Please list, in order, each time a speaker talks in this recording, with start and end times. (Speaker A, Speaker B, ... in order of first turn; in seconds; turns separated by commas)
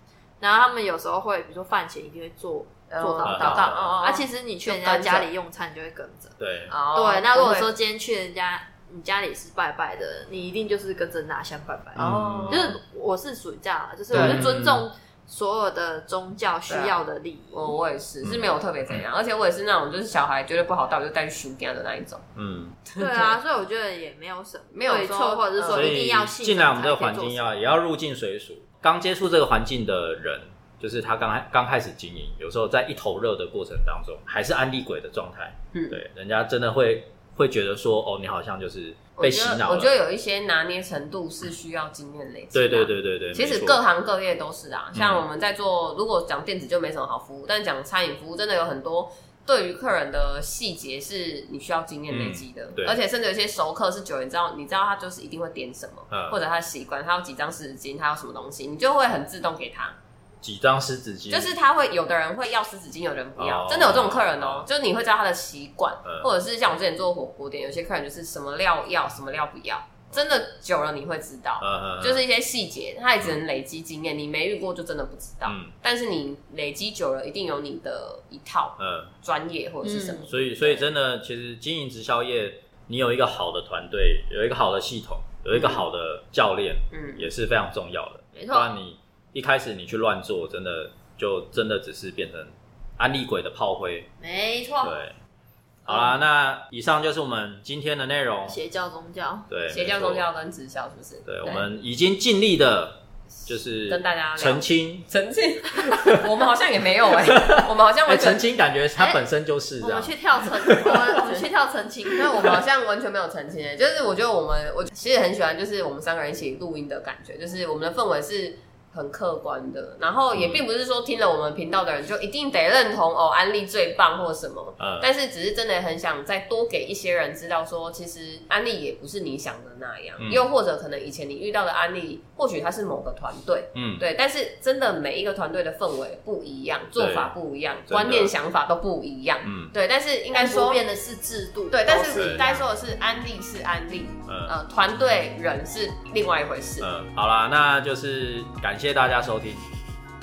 Speaker A: 0.4-6.3, Speaker B: 2.9-5.3, Speaker C: 3.2-4.0, Speaker C: 6.4-6.7, Speaker B: 6.7-7.7, Speaker A: 6.9-17.7, Speaker C: 11.9-12.7, Speaker B: 11.9-12.8, Speaker C: 14.1-14.8, Speaker B: 14.1-14.6, Speaker B: 16.7-17.0, Speaker B: 17.5-22.2, Speaker C: 18.2-19.0, Speaker C: 22.3-22.8, Speaker B: 22.9-23.4, Speaker A: 22.9-27.5, Speaker B: 24.7-26.0, Speaker C: 25.7-39.9, Speaker B: 35.7-36.0, Speaker B: 39.2-60.0, Speaker C: 42.5-43.8, Speaker C: 44.9-45.2, Speaker C: 52.1-53.0, Speaker C: 56.1-56.4, Speaker C: 60.4-61.5, Speaker B: 61.3-80.8, Speaker C: 63.4-64.7, Speaker C: 66.0-66.3, Speaker C: 71.6-72.2, Speaker C: 75.5-75.7, Speaker C: 78.8-79.1, Speaker A: 79.8-80.3, Speaker C: 80.3-94.1, Speaker B: 85.5-85.8, Speaker B: 86.9-87.3, Speaker A: 88.3-88.7, Speaker A: 94.2-94.9, Speaker C: 94.8-95.2, Speaker C: 95.8-98.6, Speaker B: 95.9-96.2, Speaker A: 98.5-99.5, Speaker C: 99.5-100.2, Speaker B: 99.7-101.7, Speaker C: 101.2-105.0, Speaker B: 103.9-108.4, Speaker C: 105.8-106.2, Speaker C: 107.2-111.3, Speaker A: 109.0-109.2, Speaker A: 109.8-112.5, Speaker B: 111.0-111.5, Speaker B: 112.1-140.8, Speaker C: 120.3-120.6, Speaker C: 124.8-125.1, Speaker C: 130.2-130.5, Speaker C: 133.7-134.1, Speaker C: 136.9-137.3, Speaker C: 137.8-138.3, Speaker C: 139.4-139.7, Speaker A: 140.3-142.7, Speaker B: 141.7-146.9, Speaker C: 142.1-142.4, Speaker C: 144.3-144.5, Speaker C: 146.8-149.6